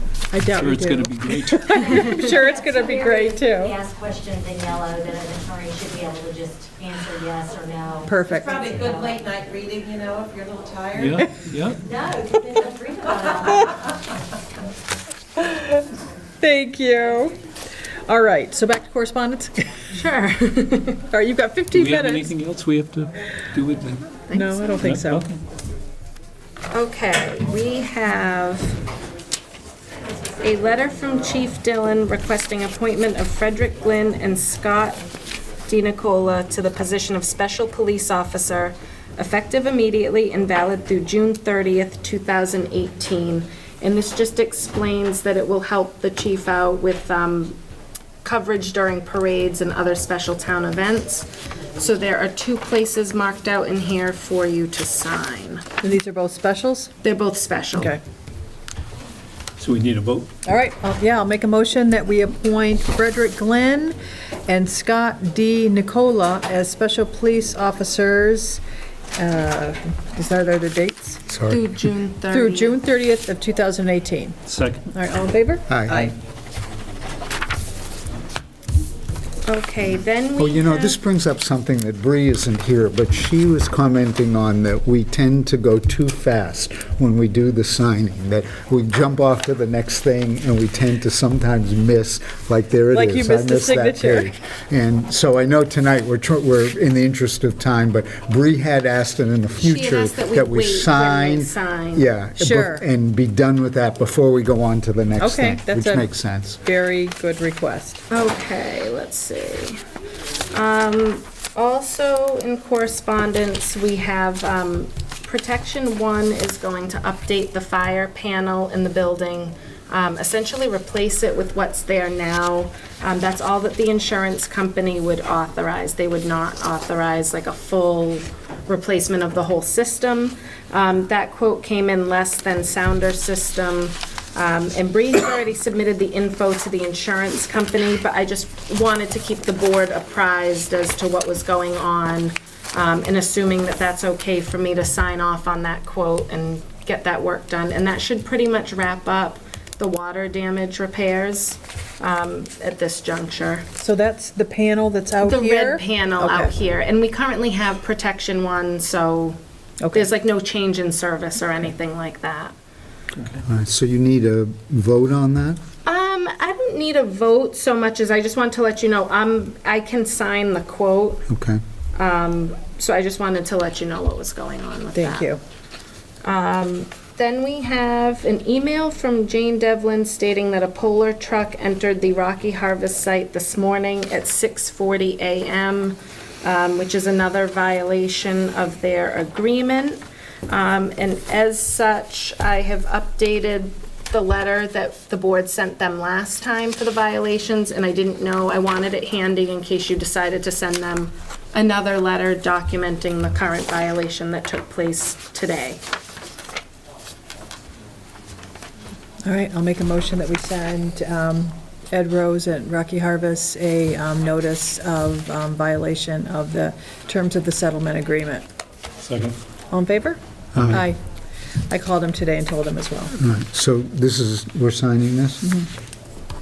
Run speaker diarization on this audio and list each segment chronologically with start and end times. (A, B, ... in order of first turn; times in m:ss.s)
0:00.3-0:03.8 A
0:00.5-0:02.4 B
0:02.5-0:08.1 C
0:08.1-0:08.6 A
0:08.4-0:10.9 D
0:08.9-0:09.2 C
0:11.0-0:11.8 B
0:12.0-0:13.6 C
0:15.4-0:15.7 A
0:16.4-0:17.4 A
0:18.1-0:19.7 A
0:19.9-0:21.0 E
0:21.1-0:22.3 A
0:21.7-0:24.2 B
0:24.3-0:25.3 A
0:24.8-0:25.4 B
0:26.7-0:28.8 E
0:30.4-0:35.0 E
0:35.7-0:47.6 E
0:48.2-0:55.6 E
0:55.8-0:56.9 A
0:57.0-0:58.0 E
0:57.8-0:58.0 A
0:59.6-1:00.3 B
1:00.4-1:04.0 A
1:04.5-1:08.6 A
1:09.2-1:11.2 A
1:11.3-1:11.6 F
1:11.5-1:12.8 E
1:12.3-1:16.1 A
1:14.5-1:14.8 B
1:15.7-1:16.1 F
1:19.5-1:21.0 E
1:20.4-1:46.6 F
1:32.9-1:34.4 A
1:39.6-1:42.0 E
1:42.4-1:42.8 A
1:45.2-1:46.1 A
1:46.6-1:48.0 A
1:48.1-1:49.8 E
1:50.5-2:33.7 E
2:33.8-2:36.5 A
2:35.2-2:39.4 E
2:39.8-2:40.1 A
2:39.9-2:42.5 E
2:43.4-2:45.6 F
2:45.9-2:51.3 E
2:51.3-2:51.6 F
2:52.0-2:55.3 E
2:55.0-2:55.4 A
2:56.2-3:25.8 E
3:29.3-3:38.4 A
3:39.0-3:39.4 B
3:39.7-3:41.0 A
3:40.6-3:40.9 F
3:41.7-3:43.2 A
3:43.2-3:45.6 F